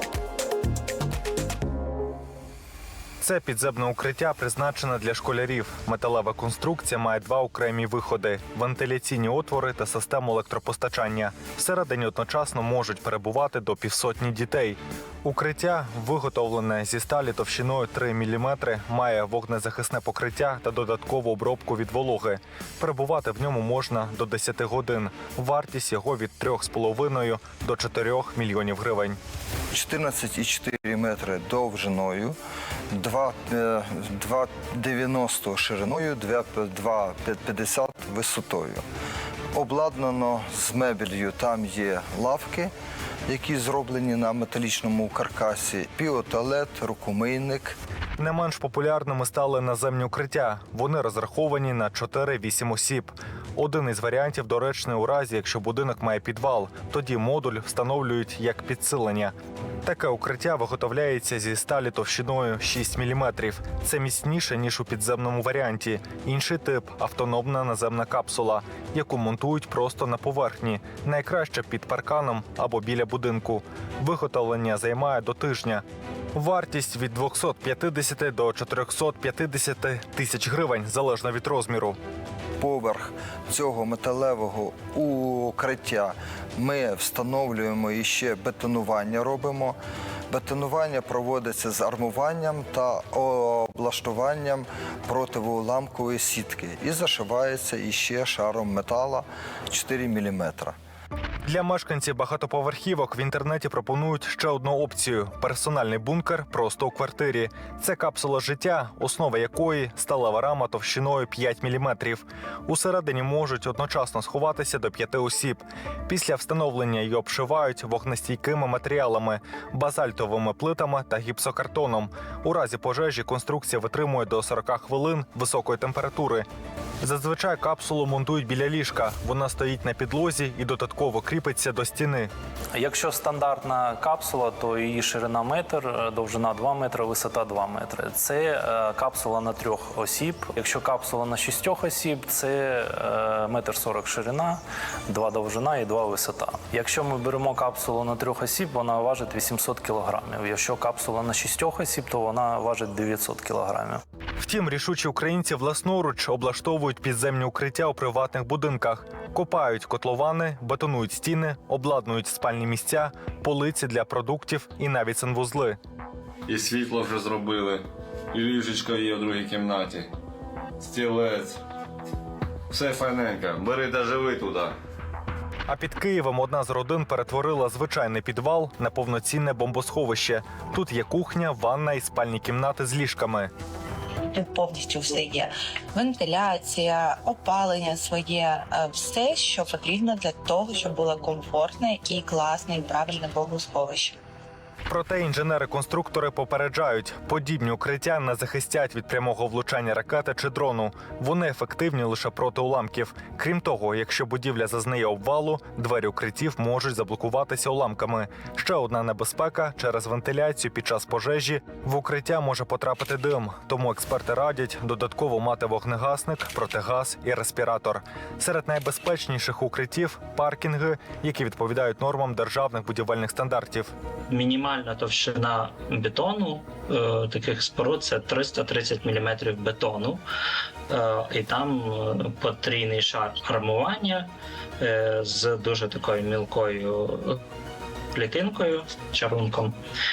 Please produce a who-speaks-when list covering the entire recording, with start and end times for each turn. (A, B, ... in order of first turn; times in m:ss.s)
0:03.2-0:29.2 A
0:29.7-0:32.4 B
0:32.9-0:38.8 B
0:39.5-0:42.7 B
0:43.3-0:47.8 B
0:48.2-1:22.0 A
1:22.6-1:29.8 B
1:30.3-1:40.7 B
1:41.4-2:06.5 A
2:07.0-2:12.3 A
2:12.7-2:34.0 C
2:34.4-2:45.8 A
2:46.5-2:50.1 D
2:50.8-2:51.6 D
2:52.7-2:54.7 D
2:55.7-3:03.5 A
3:04.3-3:14.2 E
3:14.9-3:43.9 A
3:44.3-3:50.2 F
3:50.9-3:57.4 F
3:58.1-3:59.8 F